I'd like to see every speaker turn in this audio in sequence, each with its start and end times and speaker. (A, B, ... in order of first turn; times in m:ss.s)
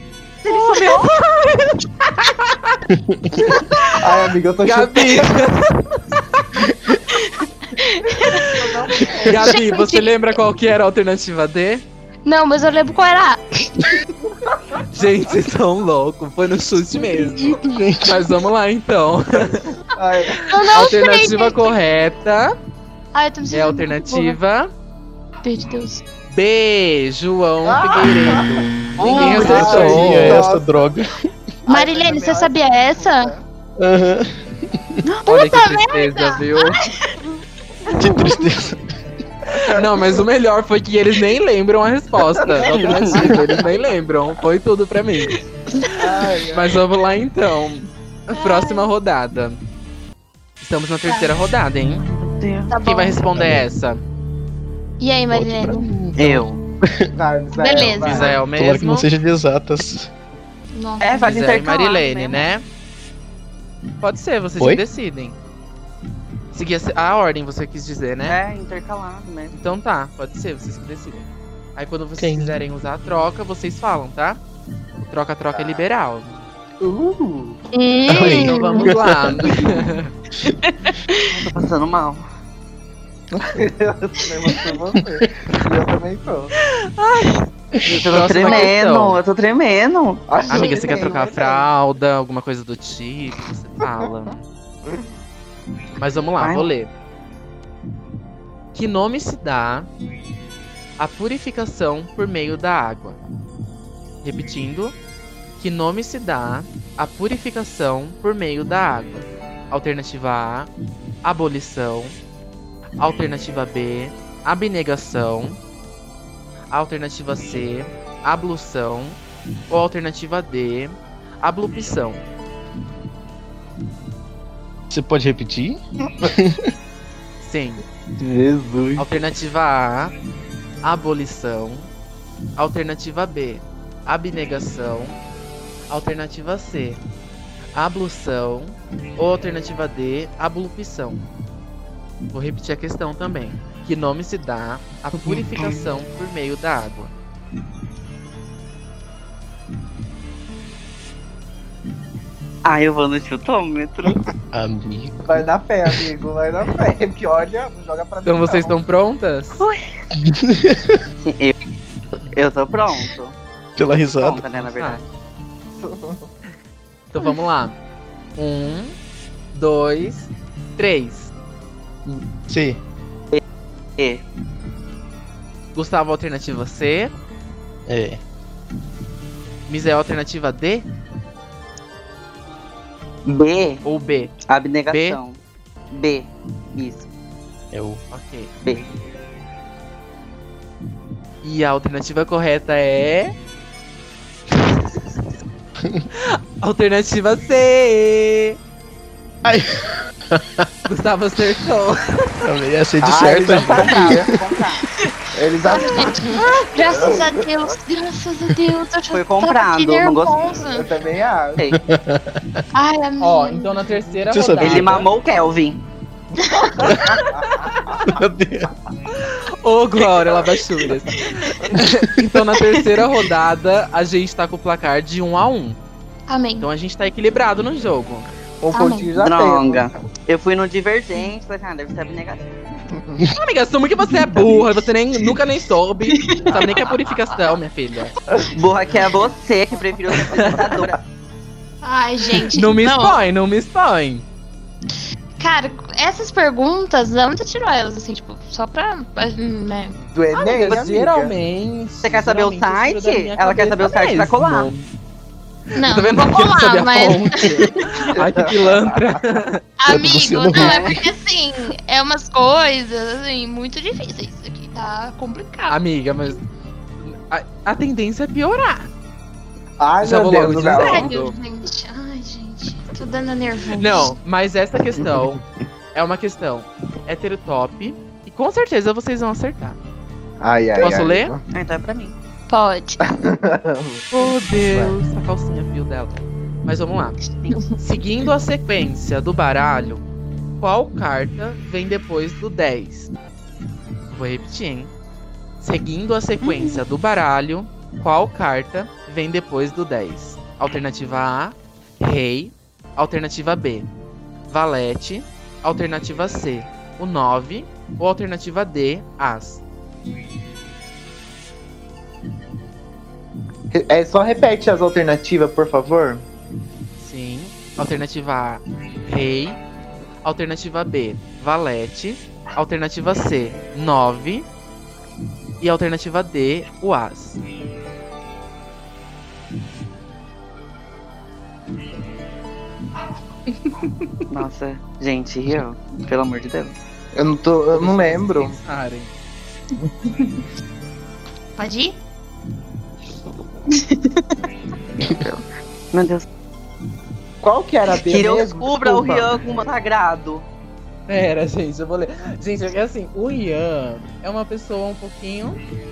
0:00.4-0:01.1 A
0:00.5-0:02.8 B
0:02.9-0:03.4 C
0:03.6-0:03.9 B
0:04.0-0:05.3 D
0:04.6-0:06.5 B
0:07.8-0:08.5 E
0:08.2-0:09.6 D
0:09.2-0:11.8 B
0:09.4-0:10.1 E
0:12.2-0:14.0 E
0:14.5-0:14.8 D
0:14.9-0:19.7 B
0:17.4-0:18.3 C
0:19.9-0:20.7 D
0:20.4-0:21.8 E
0:20.7-0:22.5 B
0:23.1-0:24.4 E
0:23.5-0:24.7 B
0:25.4-0:26.0 E
0:26.3-0:30.4 B
0:27.6-0:30.7 D
0:29.0-0:29.7 E
0:29.1-0:29.5 A
0:29.2-0:31.1 C
0:31.6-0:33.4 D
0:31.7-0:33.3 E
0:33.8-0:35.0 C
0:35.0-0:35.3 A
0:35.2-0:36.8 B
0:35.4-0:36.8 E
0:37.9-0:38.8 C
0:39.5-0:45.3 B
0:39.6-0:40.2 D
0:42.4-0:43.5 D
0:42.7-0:43.1 A
0:45.9-0:46.8 D
0:46.5-0:49.6 B
0:48.3-0:48.9 E
0:50.6-0:52.0 B
0:51.0-0:51.3 E
0:52.0-0:52.7 A
0:52.7-0:53.2 E
0:52.8-0:54.0 B
0:53.3-0:53.6 C
0:55.0-0:55.9 E
0:55.3-0:57.1 C
0:56.2-0:56.6 A
0:57.1-0:58.3 D
0:57.5-0:58.4 E
0:58.0-0:59.1 B
0:58.5-1:00.1 C
1:00.7-1:01.7 E
1:01.0-1:02.5 A
1:01.2-1:02.6 B
1:04.0-1:05.4 B
1:06.5-1:08.4 B
1:08.2-1:09.6 A
1:09.5-1:14.4 B
1:12.2-1:12.6 C
1:15.0-1:16.4 B
1:15.5-1:15.8 D
1:16.8-1:17.6 D
1:17.7-1:18.9 E
1:18.1-1:19.7 C
1:18.1-1:20.1 B
1:20.4-1:21.1 E
1:21.3-1:22.2 A
1:23.3-1:26.5 D
1:26.7-1:29.2 B
1:27.8-1:30.2 A
1:30.3-1:31.7 D
1:30.5-1:34.4 B
1:30.5-1:30.9 E
1:36.0-1:36.9 B
1:36.4-1:36.7 A
1:38.7-1:39.9 B
1:41.0-1:43.2 B
1:44.2-1:44.9 B
1:45.6-1:50.7 B
1:51.2-1:52.2 B
1:53.0-1:55.6 B
1:56.7-1:59.2 B
1:59.7-2:02.2 B
2:04.9-2:06.7 C
2:07.4-2:07.8 B
2:08.2-2:09.1 D
2:09.0-2:10.1 B
2:10.8-2:11.9 B
2:12.6-2:15.2 B
2:15.9-2:17.0 B
2:17.7-2:21.2 B
2:22.3-2:27.1 B
2:32.6-2:34.2 A
2:34.5-2:36.0 C
2:35.2-2:38.8 D
2:38.2-2:39.6 B
2:39.6-2:39.9 A
2:40.2-2:41.0 C
2:41.2-2:41.6 A
2:42.3-2:43.4 A
2:43.8-2:44.4 C
2:44.2-2:45.0 A
2:45.8-2:46.3 D
2:47.1-2:47.8 B
2:48.4-2:49.0 B
2:49.5-2:51.3 B
2:52.5-2:52.8 C
2:54.0-2:54.2 A
2:55.7-2:57.1 B
2:57.9-2:58.2 C
2:59.7-3:00.8 B
3:03.2-3:03.8 A
3:03.8-3:04.4 B
3:04.5-3:05.4 A
3:04.9-3:05.2 B
3:05.9-3:07.1 A
3:07.7-3:08.0 C
3:08.1-3:08.5 B
3:11.4-3:13.3 B
3:16.2-3:18.6 B
3:19.4-3:20.7 C
3:20.8-3:22.4 B
3:22.4-3:24.3 C
3:23.0-3:24.3 D
3:23.7-3:24.8 A
3:25.3-3:27.4 D
3:25.7-3:30.9 E
3:29.1-3:30.6 A
3:30.6-3:31.7 D
3:31.7-3:32.6 C
3:32.7-3:34.2 E
3:33.2-3:35.1 B
3:34.3-3:35.0 C
3:34.6-3:35.8 A
3:36.3-3:38.2 D
3:36.9-3:37.2 C
3:38.0-3:38.7 C
3:39.1-3:45.8 B
3:41.7-3:42.2 C
3:46.3-3:46.7 E
3:46.6-3:48.3 B
3:48.6-3:50.0 D
3:48.7-3:49.1 E
3:49.2-3:52.5 A
3:52.9-3:53.2 D
3:53.3-3:58.1 B
3:56.1-3:56.6 E
3:58.3-3:59.0 D
3:58.5-4:01.0 A
4:00.2-4:00.6 B
4:01.8-4:03.2 E
4:02.5-4:04.2 B
4:05.4-4:10.0 E
4:09.9-4:11.3 D
4:10.3-4:14.9 B
4:12.0-4:14.7 A
4:15.8-4:17.7 E
4:15.8-4:19.6 B
4:18.1-4:19.4 D
4:19.8-4:25.8 E
4:19.9-4:21.1 C
4:20.5-4:21.0 A
4:25.7-4:26.4 B
4:27.0-4:28.9 B
4:29.8-4:31.2 D
4:30.0-4:31.3 B
4:30.7-4:34.2 E
4:33.8-4:35.4 B
4:35.9-4:39.8 B
4:40.4-4:41.4 D
4:40.8-4:41.3 B
4:41.5-4:42.1 A
4:42.5-4:43.0 E
4:43.1-4:44.0 D
4:44.1-4:47.2 B
4:44.7-4:45.0 D
4:47.8-4:50.0 B
4:50.6-4:53.1 B
4:54.1-4:54.9 B
4:55.6-5:03.9 B
4:56.4-4:56.8 A
5:04.5-5:09.6 B
5:13.7-5:16.2 D
5:17.0-5:19.6 B
5:20.2-5:24.5 B
5:25.6-5:27.4 B
5:34.3-5:36.7 A
5:37.1-5:38.6 D
5:37.7-5:39.1 B
5:41.6-5:42.0 E
5:43.7-5:44.4 A
5:45.0-5:46.2 A
5:47.4-5:49.4 D
5:48.0-5:50.4 A
5:51.1-5:55.6 B